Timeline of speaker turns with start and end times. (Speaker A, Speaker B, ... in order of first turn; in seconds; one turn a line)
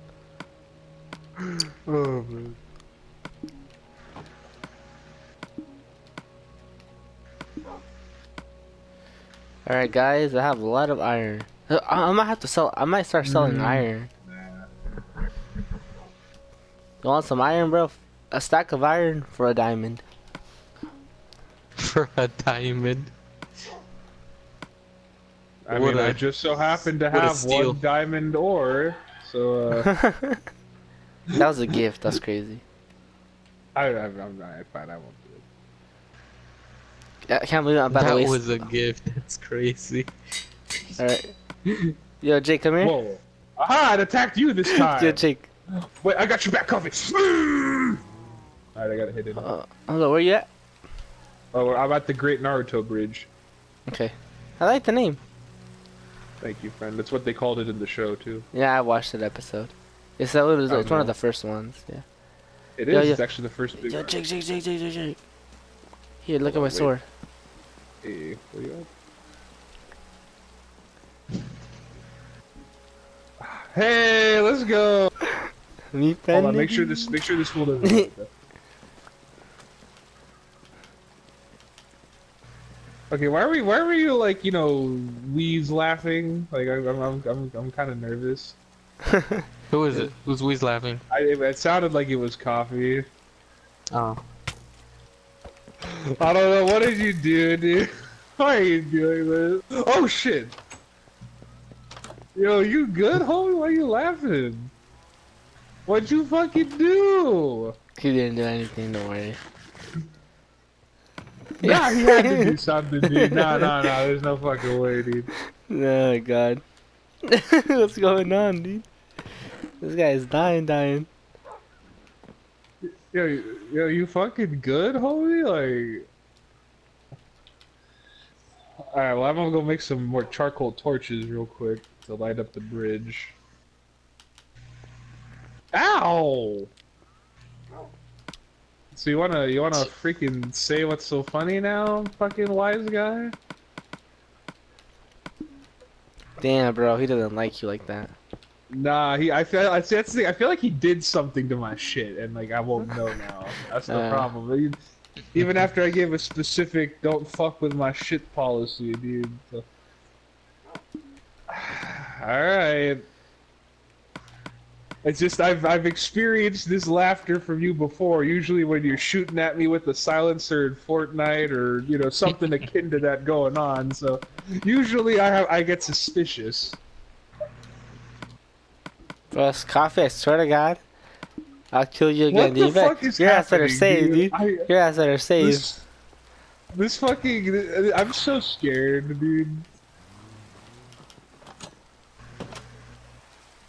Speaker A: 1.9-2.5
Speaker A: 9.7-14.1
Speaker B: 13.2-14.7
Speaker A: 17.0-20.0
Speaker C: 21.8-23.1
Speaker B: 25.7-29.9
Speaker C: 25.7-26.2
Speaker C: 27.1-27.8
Speaker A: 29.9-30.4
Speaker A: 31.4-32.6
Speaker B: 33.8-35.5
Speaker A: 37.3-38.7
Speaker C: 37.9-40.1
Speaker A: 41.0-41.3
Speaker A: 42.2-43.0
Speaker B: 42.8-45.2
Speaker A: 44.7-45.5
Speaker B: 45.8-48.0
Speaker B: 48.8-49.5
Speaker A: 49.4-50.5
Speaker B: 51.5-53.3
Speaker A: 53.9-55.2
Speaker B: 56.4-58.5
Speaker A: 58.5-62.0
Speaker B: 60.7-61.1
Speaker B: 62.8-64.2
Speaker A: 62.9-63.2
Speaker A: 63.8-65.2
Speaker A: 66.2-67.0
Speaker B: 66.5-66.9
Speaker B: 68.0-68.9
Speaker B: 73.4-75.1
Speaker A: 75.9-77.2
Speaker B: 76.3-78.3
Speaker B: 83.1-88.6
Speaker A: 89.1-89.4
Speaker C: 89.7-91.0
Speaker B: 91.1-93.1
Speaker C: 93.9-94.2
Speaker B: 96.2-100.6
Speaker B: 102.3-104.7
Speaker B: 105.9-107.7
Speaker A: 108.0-109.4
Speaker B: 111.6-115.3
Speaker A: 111.6-112.5
Speaker A: 113.1-113.7
Speaker A: 115.7-116.6
Speaker A: 117.3-118.9
Speaker A: 119.8-121.1
Speaker B: 123.1-126.1
Speaker B: 128.9-133.4
Speaker B: 135.7-136.7
Speaker B: 138.9-143.3
Speaker A: 146.4-148.1
Speaker B: 148.7-154.8
Speaker A: 153.9-154.3
Speaker B: 155.3-159.7
Speaker B: 161.5-163.1
Speaker B: 165.0-176.8
Speaker A: 179.3-180.8
Speaker A: 181.7-185.7
Speaker B: 182.3-184.7
Speaker B: 185.4-185.8
Speaker B: 186.7-189.7